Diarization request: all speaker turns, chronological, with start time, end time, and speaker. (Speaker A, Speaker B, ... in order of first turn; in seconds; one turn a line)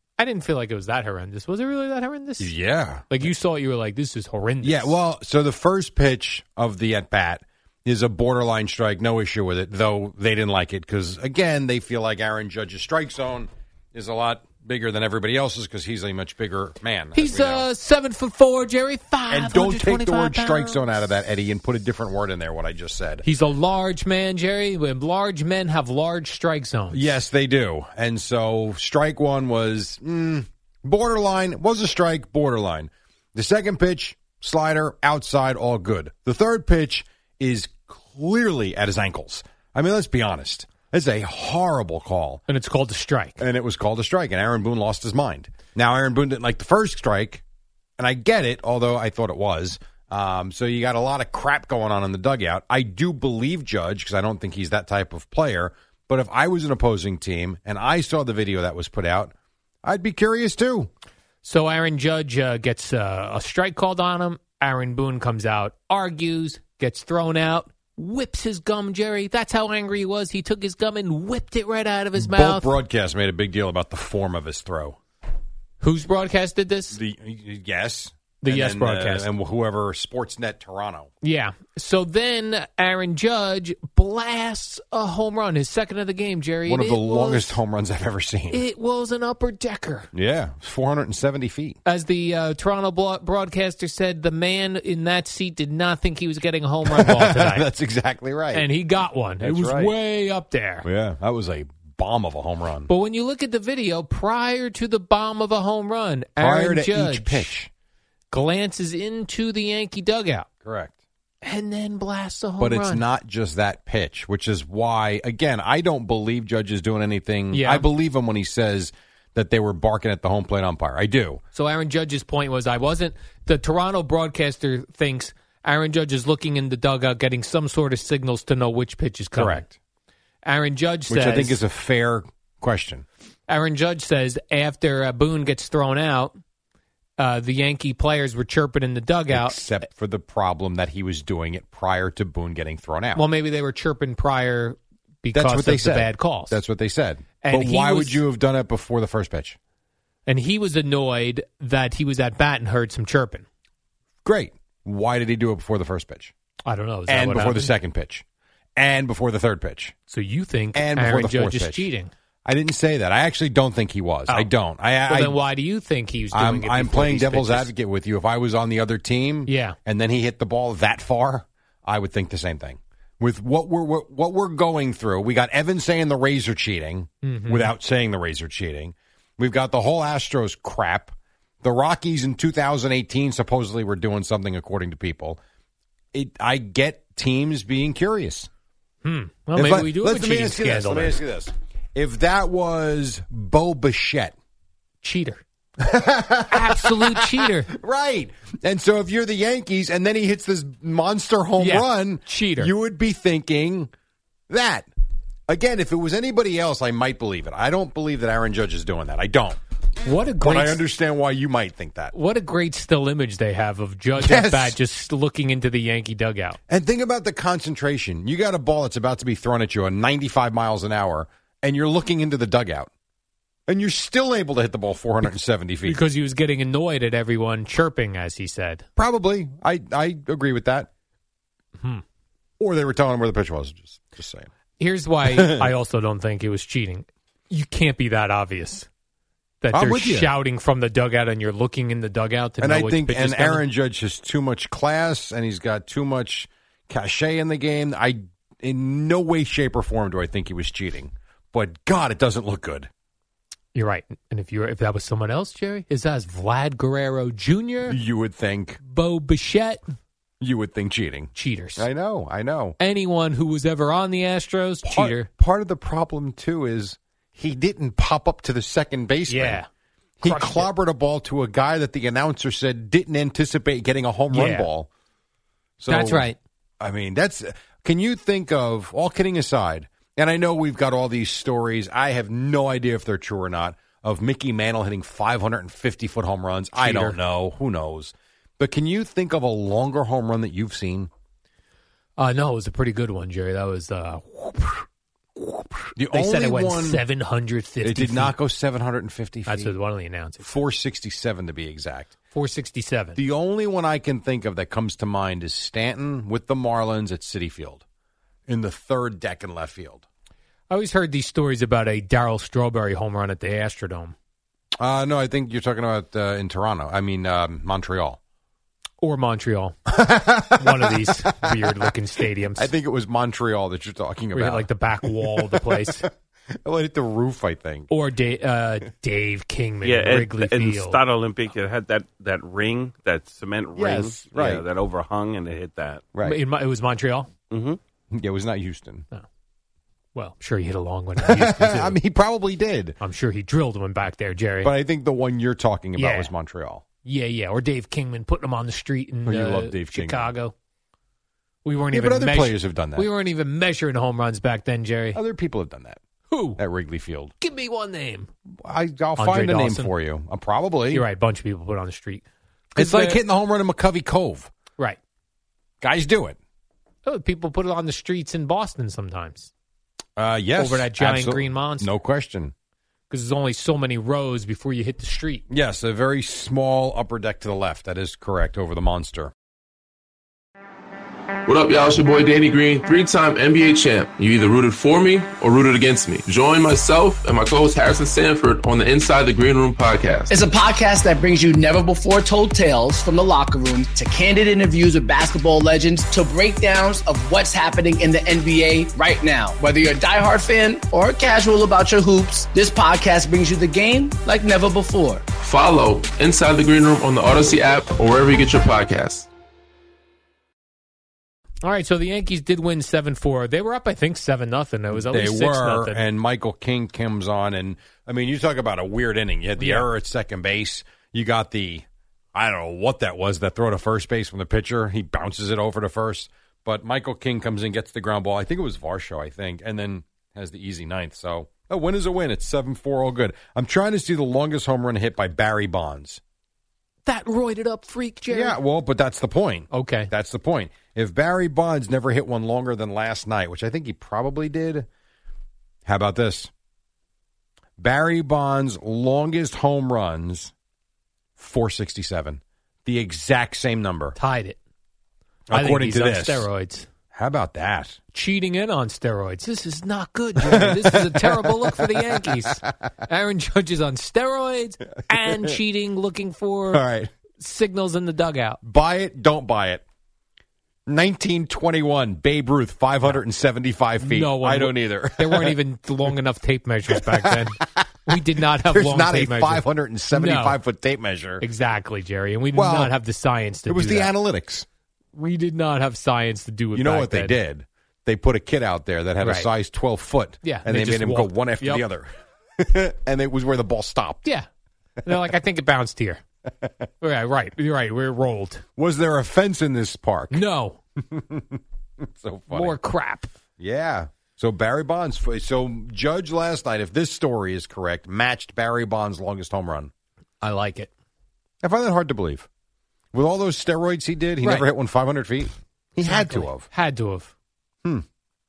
Speaker A: 0.2-2.5
Speaker B: 2.4-3.3
Speaker A: 3.1-5.0
Speaker B: 4.6-17.7
Speaker A: 17.1-20.9
Speaker B: 19.3-23.2
Speaker A: 23.2-27.2
Speaker B: 26.9-42.4
Speaker A: 42.5-43.4
Speaker B: 43.4-47.4
Speaker B: 48.0-59.3
Speaker B: 59.8-60.9
Speaker A: 61.4-72.7
Speaker B: 72.2-75.0
Speaker A: 75.8-77.0
Speaker B: 76.9-81.1
Speaker A: 78.4-79.3
Speaker A: 81.2-87.6
Speaker B: 86.7-88.6
Speaker A: 88.5-90.1
Speaker B: 90.1-91.8
Speaker A: 91.8-97.7
Speaker B: 96.8-98.7
Speaker A: 98.5-100.8
Speaker B: 99.4-99.9
Speaker B: 100.8-102.9
Speaker A: 102.9-107.5
Speaker B: 106.4-107.7
Speaker A: 108.3-110.5
Speaker B: 110.6-110.9
Speaker A: 111.4-113.0
Speaker B: 112.6-121.4
Speaker A: 117.5-117.8
Speaker A: 121.5-129.7
Speaker B: 129.3-129.7
Speaker A: 130.4-131.6
Speaker B: 131.1-133.0
Speaker A: 133.5-136.3
Speaker A: 137.2-139.6
Speaker B: 139.3-143.2
Speaker A: 143.1-146.6
Speaker B: 145.3-149.6
Speaker A: 147.4-148.2
Speaker A: 150.2-153.4
Speaker B: 154.2-156.3
Speaker A: 156.6-157.7
Speaker B: 157.1-158.2
Speaker B: 158.8-159.9
Speaker A: 160.1-162.1
Speaker B: 160.7-161.9
Speaker B: 162.4-165.4
Speaker A: 165.0-167.7
Speaker B: 166.3-185.4
Speaker A: 169.4-169.8
Speaker A: 177.2-177.7
Speaker B: 186.1-188.5
Speaker A: 189.0-191.2
Speaker B: 189.5-194.3
Speaker A: 195.0-195.4
Speaker B: 195.8-203.9
Speaker A: 196.5-197.7
Speaker A: 201.6-202.7
Speaker B: 204.5-204.9
Speaker B: 205.5-209.6
Speaker A: 210.0-210.8
Speaker B: 210.4-212.1
Speaker A: 212.1-216.6
Speaker B: 214.2-214.8
Speaker B: 216.7-222.9
Speaker B: 223.7-226.0
Speaker A: 225.8-228.8
Speaker B: 229.0-230.9
Speaker B: 232.6-234.5
Speaker A: 234.8-238.9
Speaker B: 235.2-235.7
Speaker A: 239.6-243.7
Speaker B: 239.7-240.3
Speaker B: 242.6-252.9
Speaker A: 253.7-258.0
Speaker B: 257.9-258.8
Speaker A: 258.8-259.8
Speaker B: 260.4-262.8
Speaker A: 261.3-261.9
Speaker A: 262.8-265.3
Speaker B: 264.8-269.6
Speaker A: 269.3-269.7
Speaker B: 270.2-274.9
Speaker A: 270.2-270.7
Speaker A: 274.3-274.7
Speaker B: 275.8-276.3
Speaker A: 275.9-276.4
Speaker B: 276.8-291.1
Speaker A: 286.8-287.2
Speaker A: 292.2-294.9
Speaker A: 295.4-298.3
Speaker B: 295.9-297.0
Speaker B: 297.8-299.8
Speaker A: 299.4-300.5
Speaker B: 300.4-302.1
Speaker A: 302.3-303.2
Speaker B: 303.1-307.8
Speaker B: 308.5-310.0
Speaker A: 310.7-314.1
Speaker B: 314.8-318.2
Speaker A: 319.0-322.7
Speaker B: 319.9-321.6
Speaker B: 322.5-326.1
Speaker A: 324.3-326.0
Speaker B: 326.6-327.9
Speaker A: 327.9-331.0
Speaker C: 329.8-336.1
Speaker B: 333.7-334.6
Speaker B: 336.1-336.4
Speaker A: 336.2-337.3
Speaker C: 337.5-337.8
Speaker B: 338.1-339.0
Speaker A: 340.1-342.0
Speaker B: 341.2-342.9
Speaker A: 343.0-344.7
Speaker B: 344.6-346.8
Speaker A: 345.9-346.3
Speaker A: 347.0-350.5
Speaker B: 349.2-350.3
Speaker A: 351.6-355.2
Speaker B: 351.9-353.1
Speaker B: 355.1-356.0
Speaker A: 356.3-356.6
Speaker B: 356.6-357.3
Speaker A: 357.4-358.3
Speaker B: 358.6-361.1
Speaker A: 359.2-359.9
Speaker A: 360.9-362.2
Speaker A: 362.8-363.2
Speaker B: 362.8-364.5
Speaker B: 365.8-366.4
Speaker A: 367.0-369.5
Speaker B: 370.2-372.5
Speaker A: 370.6-371.9
Speaker A: 373.1-375.4
Speaker B: 375.5-379.3
Speaker D: 381.5-390.2
Speaker E: 390.3-405.2
Speaker D: 405.4-409.2
Speaker A: 411.6-416.1
Speaker B: 414.9-436.2
Speaker A: 419.6-419.9
Speaker A: 437.0-438.6
Speaker B: 438.3-444.9
Speaker A: 439.7-440.1
Speaker B: 445.9-446.5
Speaker B: 447.8-450.5
Speaker B: 451.4-454.1
Speaker A: 454.1-454.6
Speaker B: 455.5-456.5
Speaker A: 455.5-456.9
Speaker B: 457.1-458.0
Speaker A: 458.1-466.8
Speaker B: 460.4-462.5
Speaker B: 465.1-465.6
Speaker B: 466.7-467.1
Speaker A: 467.4-468.6
Speaker B: 468.6-469.8
Speaker B: 470.9-475.6
Speaker A: 474.0-480.6
Speaker B: 476.9-481.4
Speaker A: 481.4-484.1
Speaker B: 482.5-482.9
Speaker B: 483.7-484.6
Speaker A: 485.1-487.4
Speaker B: 486.7-494.2
Speaker A: 489.2-489.5
Speaker A: 490.4-491.8
Speaker A: 495.0-496.2
Speaker A: 497.0-498.6
Speaker B: 498.8-500.4
Speaker A: 500.3-500.8
Speaker B: 501.1-502.8
Speaker A: 502.5-503.3
Speaker B: 503.6-509.9
Speaker A: 510.4-510.9
Speaker B: 511.6-512.5
Speaker B: 513.1-516.6
Speaker A: 516.0-517.3